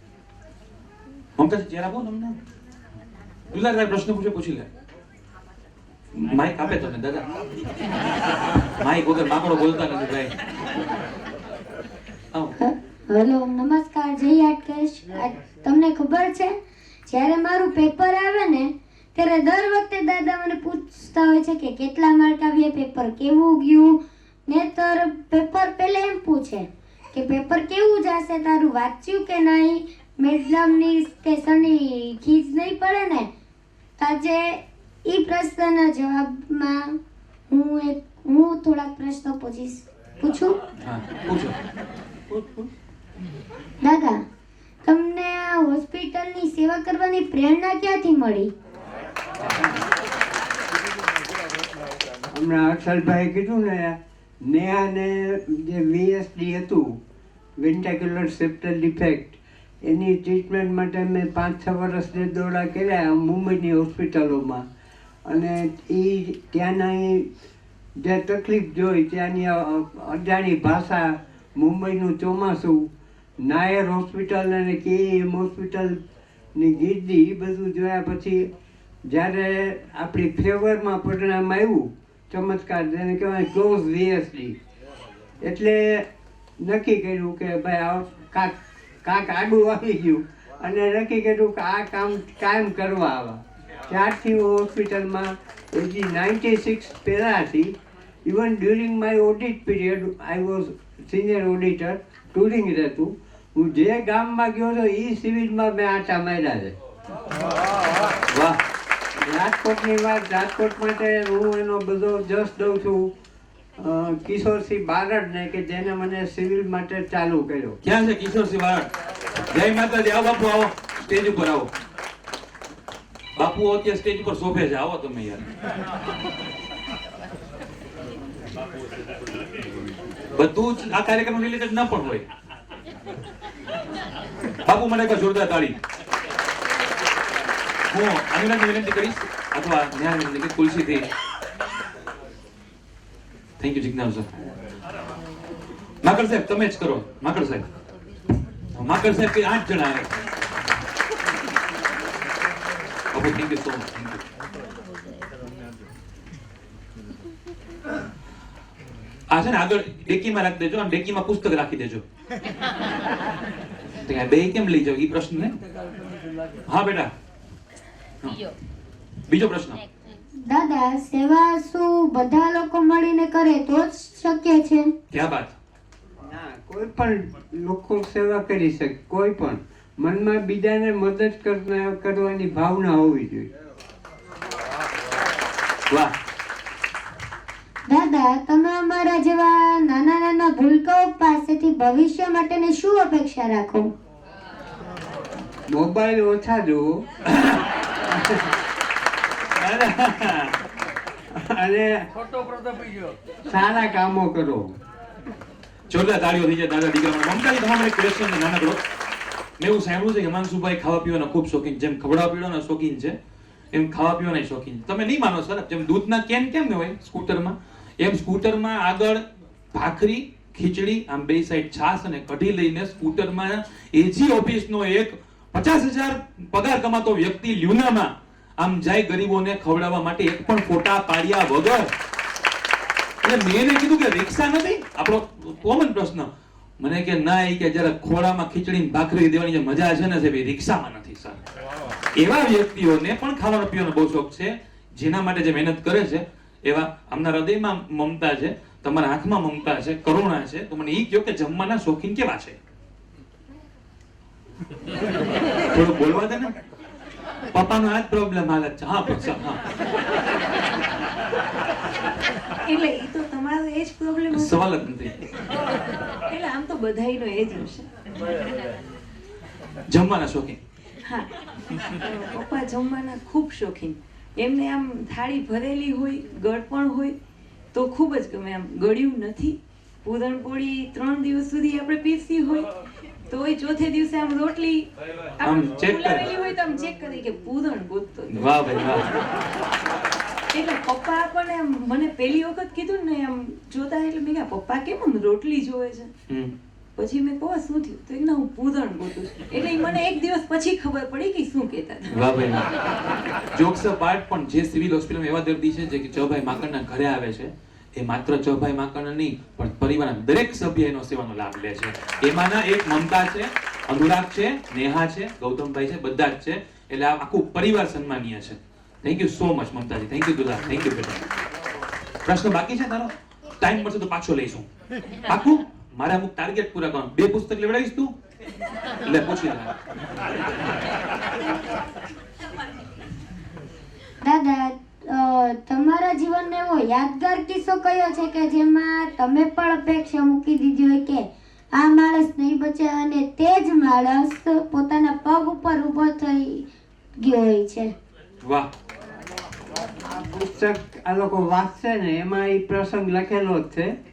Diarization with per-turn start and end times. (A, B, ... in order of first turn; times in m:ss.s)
0:01.4-0:02.4 A
0:03.5-0:04.7 A
0:06.1-0:07.2 A
0:08.8-0:10.3 A
0:12.6-0:16.5 B
0:17.1-0:24.0 B
0:24.5-0:33.3 B
0:34.0-0:37.0 B
0:37.5-0:40.6 B
0:40.8-0:41.6 A
0:43.8-0:44.2 B
0:44.8-0:48.5 B
0:52.3-0:56.9 C
0:57.6-1:04.7 C
1:05.3-1:07.3 C
1:08.0-1:12.9 C
1:13.4-1:16.0 C
1:16.6-1:18.5 C
1:19.0-1:24.6 C
1:25.4-1:26.1 C
1:26.6-1:46.7 C
1:48.3-1:48.6 A
1:49.2-1:53.1 C
1:53.8-1:57.8 C
1:57.8-1:58.9 A
1:59.5-2:01.7 A
2:03.4-2:05.4 A
2:10.3-2:12.2 A
2:14.6-2:15.8 A
2:17.9-2:21.1 A
2:23.6-2:24.3 A
2:26.0-2:27.6 A
2:28.8-2:30.1 A
2:33.1-2:34.2 A
2:39.3-2:42.0 A
2:44.0-2:45.6 A
2:46.7-2:47.1 A
2:49.3-2:49.8 A
2:50.5-2:54.9 B
2:55.1-2:55.6 A
2:56.2-3:03.5 C
3:07.9-3:13.9 B
3:15.7-3:17.0 C
3:18.1-3:18.4 C
3:19.6-3:20.6 A
3:21.3-3:22.1 C
3:23.5-3:24.8 C
3:25.9-3:28.8 A
3:29.6-3:33.2 A
3:33.7-3:39.2 A
3:39.7-3:51.9 A
3:53.2-4:01.4 A
4:02.2-4:12.6 A
4:15.7-4:16.5 A
4:17.5-4:19.6 A
4:22.6-4:24.7 D
4:24.3-4:25.1 A
4:26.3-4:27.9 D
4:29.9-4:30.6 A
4:31.0-4:37.2 D
4:37.7-4:42.7 D
4:43.3-4:44.9 D
4:45.4-4:48.7 D
4:45.4-4:46.2 A
4:48.3-4:49.1 A
4:50.5-4:56.1 D
4:56.3-4:56.5 A
4:57.0-5:02.2 D
5:02.1-5:02.7 A
5:03.5-5:21.2 A
5:22.2-5:24.7 A
5:25.3-5:28.1 A
5:29.0-5:29.7 A
5:34.2-5:46.7 B
5:47.2-5:47.9 B
5:48.4-5:48.7 A
5:50.1-5:53.9 C